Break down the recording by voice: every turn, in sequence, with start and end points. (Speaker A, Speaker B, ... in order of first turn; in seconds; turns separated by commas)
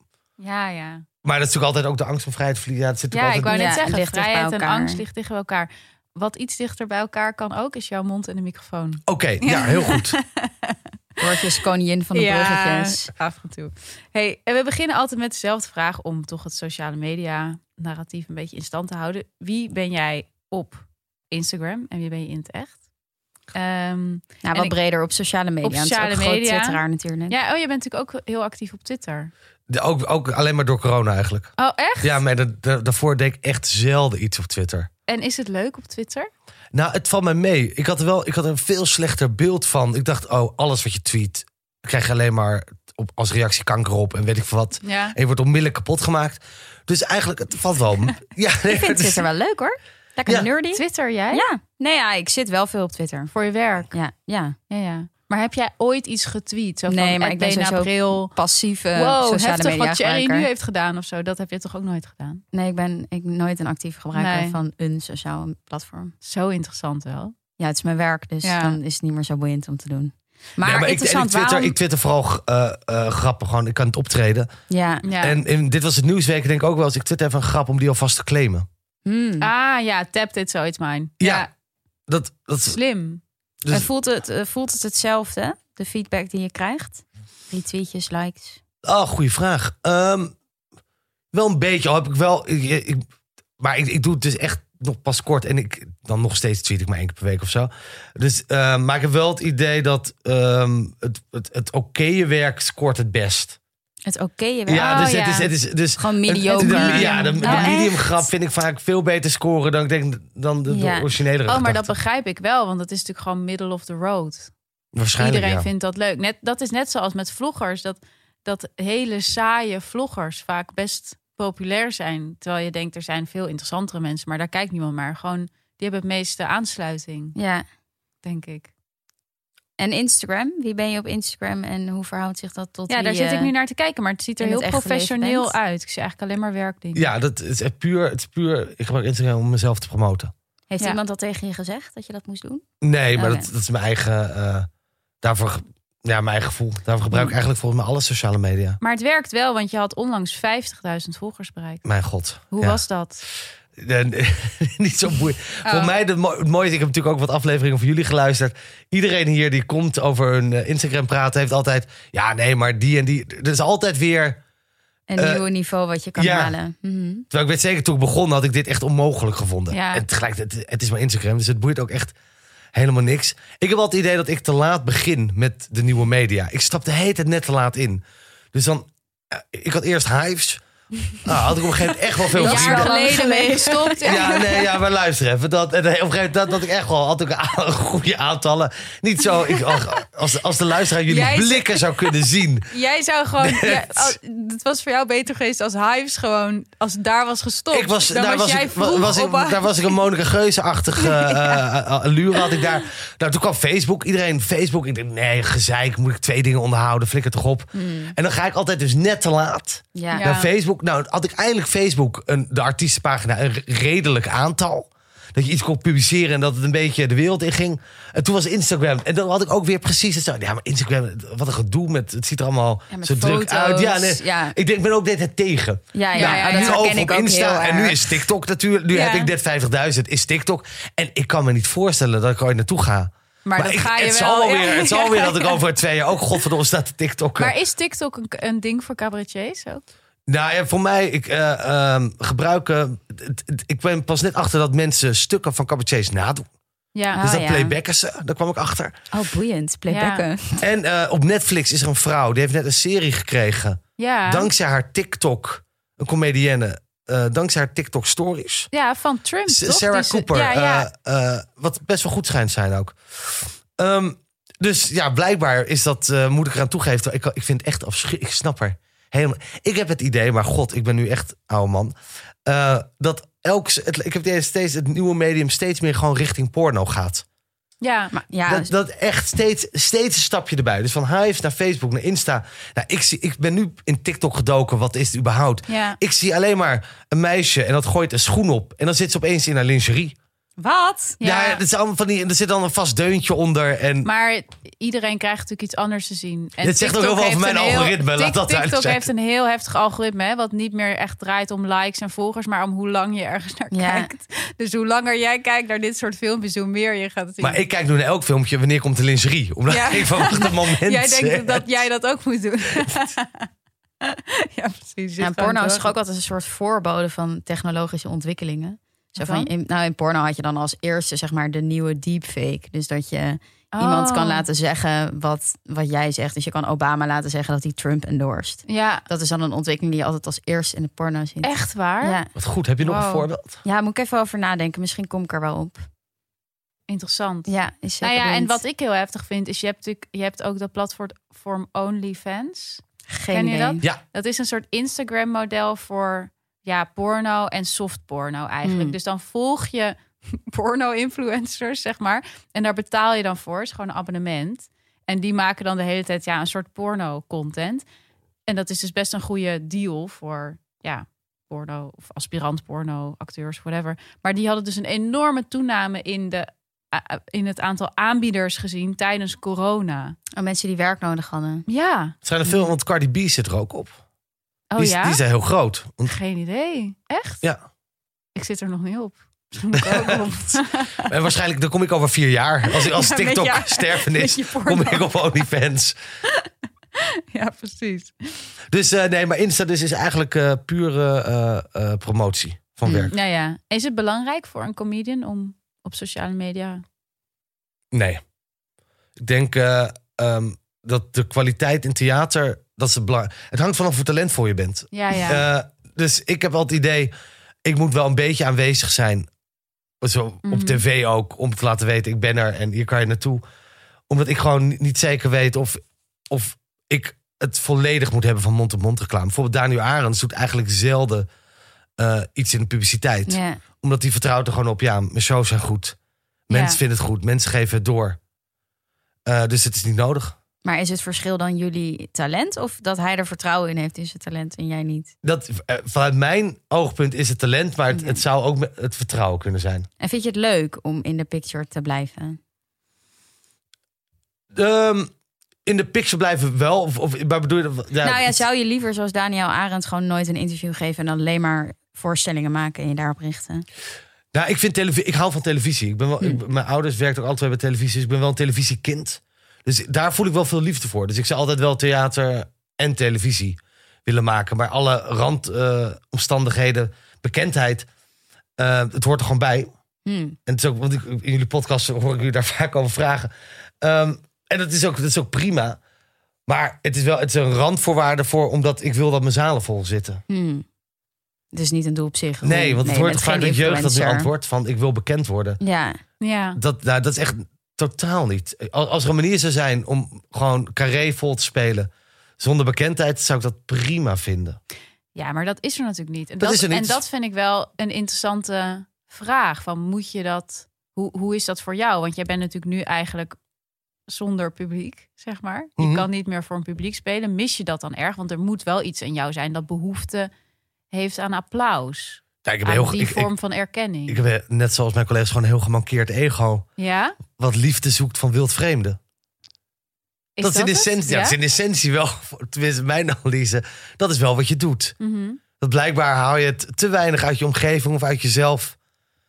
Speaker A: 0.4-1.0, Speaker B: 1.2-3.6, Speaker A: 3.1-11.6, Speaker C: 3.2-5.0, Speaker B: 9.1-10.2, Speaker C: 11.2-13.1, Speaker A: 12.1-22.8, Speaker A: 23.5-24.7, Speaker C: 24.4-27.4, Speaker A: 25.6-29.3, Speaker B: 29.7-34.9, Speaker A: 31.6-32.2, Speaker A: 35.1-36.3, Speaker B: 36.7-49.2, Speaker A: 44.8-45.1, Speaker C: 48.7-53.3, Speaker A: 50.7-51.5, Speaker A: 53.3-53.9, Speaker C: 53.9-54.5, Speaker A: 54.7-58.3, Speaker C: 56.9-60.5, Speaker A: 58.9-62.4, Speaker C: 62.5-66.1, Speaker A: 64.1-64.6, Speaker A: 66.2-67.3, Speaker C: 67.6-71.8, Speaker A: 68.4-68.8, Speaker B: 70.6-74.5, Speaker C: 74.7-75.0, Speaker A: 75.0-75.4, Speaker B: 75.2-78.7, Speaker C: 79.0-79.5, Speaker A: 79.4-81.5, Speaker B: 81.2-81.5, Speaker B: 82.1-82.8, Speaker A: 82.7-83.2, Speaker C: 83.7-88.6, Speaker B: 88.8-90.3, Speaker B: 91.3-93.0, Speaker B: 93.6-103.6, Speaker C: 104.0-105.1, Speaker B: 104.7-111.9, Speaker A: 104.8-105.5, Speaker C: 106.0-108.3, Speaker A: 106.5-107.7, Speaker C: 110.7-111.1, Speaker A: 111.4-114.5, Speaker B: 114.9-115.7, Speaker A: 115.2-127.3, Speaker C: 127.3-127.6, Speaker A: 128.2-128.7, Speaker C: 129.8-133.5, Speaker A: 132.9-137.1, Speaker C: 134.4-135.5, Speaker B: 136.9-140.3, Speaker C: 140.7-142.6, Speaker B: 142.8-144.7, Speaker C: 143.1-143.5, Speaker B: 145.2-148.8, Speaker A: 148.8-151.8, Speaker B: 151.8-152.8, Speaker A: 152.5-153.2, Speaker B: 153.8-164.4, Speaker A: 155.6-155.9, Speaker C: 165.1-167.2, Speaker B: 165.2-165.4, Speaker B: 166.2-166.5, Speaker B: 167.3-172.1, Speaker A: 169.7-170.0, Speaker B: 172.7-178.0, Speaker B: 178.5-180.6, Speaker B: 181.2-183.0, Speaker C: 182.3-184.3, Speaker A: 182.3-184.7, Speaker B: 184.0-192.7, Speaker A: 191.1-192.1, Speaker A: 192.7-199.9, Speaker B: 193.4-194.2, Speaker B: 197.7-237.5, Speaker A: 200.9-201.6, Speaker C: 207.8-208.1, Speaker C: 209.9-210.3, Speaker A: 210.1-210.5, Speaker C: 222.9-224.6, Speaker C: 225.9-228.2, Speaker A: 226.1-226.8, Speaker A: 228.9-229.3, Speaker A: 233.4-235.6, Speaker A: 237.4-239.8, Speaker B: 240.3-246.5, Speaker A: 246.9-247.2, Speaker C: 247.1-247.7, Speaker B: 247.2-248.9, Speaker C: 249.1-250.6, Speaker A: 249.9-250.2, Speaker B: 250.6-258.7, Speaker A: 254.0-254.5, Speaker A: 258.7-260.9, Speaker B: 259.5-271.9, Speaker B: 272.4-277.2, Speaker A: 277.8-278.1, Speaker C: 278.1-278.7, Speaker B: 278.4-290.1, Speaker A: 285.7-286.0, Speaker C: 290.6-291.2, Speaker A: 291.2-291.6, Speaker B: 291.2-294.1, Speaker A: 294.0-307.6, Speaker B: 296.6-299.1, Speaker C: 303.7-304.1, Speaker B: 307.4-311.7, Speaker A: 309.7-313.5, Speaker A: 314.0-315.9, Speaker C: 315.2-332.3, Speaker A: 319.2-319.5, Speaker A: 323.7-324.4, Speaker A: 328.7-329.0, Speaker A: 331.4-332.2, Speaker B: 332.4-333.6, Speaker A: 332.8-333.3, Speaker C: 333.6-335.8, Speaker A: 336.9-357.8, Speaker C: 337.5-338.6, Speaker C: 343.1-343.8, Speaker C: 348.6-348.9, Speaker A: 358.5-370.2, Speaker C: 370.3-371.6, Speaker A: 371.7-372.7, Speaker B: 372.2-373.9, Speaker A: 374.7-375.2, Speaker B: 374.8-376.1, Speaker A: 376.0-377.4, Speaker A: 378.4-381.1, Speaker B: 379.7-386.0, Speaker A: 382.7-385.1, Speaker A: 387.0-388.5, Speaker B: 388.7-393.1, Speaker A: 392.9-396.8, Speaker B: 397.9-398.2, Speaker B: 399.2-407.1, Speaker A: 404.9-405.4, Speaker B: 407.6-409.3, Speaker B: 410.0-413.4, Speaker A: 410.4-410.8, Speaker B: 414.1-421.3, Speaker B: 422.0-425.9, Speaker C: 423.3-423.6, Speaker B: 426.5-428.2, Speaker A: 426.5-426.8, Speaker B: 429.2-430.4, Speaker C: 430.6-435.1, Speaker B: 435.2-439.9, Speaker C: 437.9-438.2, Speaker C: 440.0-442.4, Speaker B: 444.5-445.1, Speaker B: 445.6-448.4, Speaker C: 448.0-453.6, Speaker B: 454.3-467.9, Speaker B: 468.6-469.7, Speaker C: 470.1-470.4, Speaker B: 470.5-475.8, Speaker B: 476.5-480.2, Speaker C: 480.3-480.6, Speaker C: 481.5-484.3, Speaker B: 482.4-485.6, Speaker C: 485.6-486.0, Speaker A: 486.2-486.6, Speaker B: 486.6-494.6, Speaker A: 495.1-503.4, Speaker B: 496.4-497.0, Speaker A: 504.1-510.3, Speaker B: 505.8-506.1, Speaker A: 510.9-514.2, Speaker B: 512.5-513.3, Speaker B: 514.1-516.6, Speaker A: 516.8-517.2, Speaker B: 517.3-519.0, Speaker A: 520.4-521.4, Speaker B: 520.4-524.9, Speaker A: 525.0-525.4, Speaker B: 525.6-528.8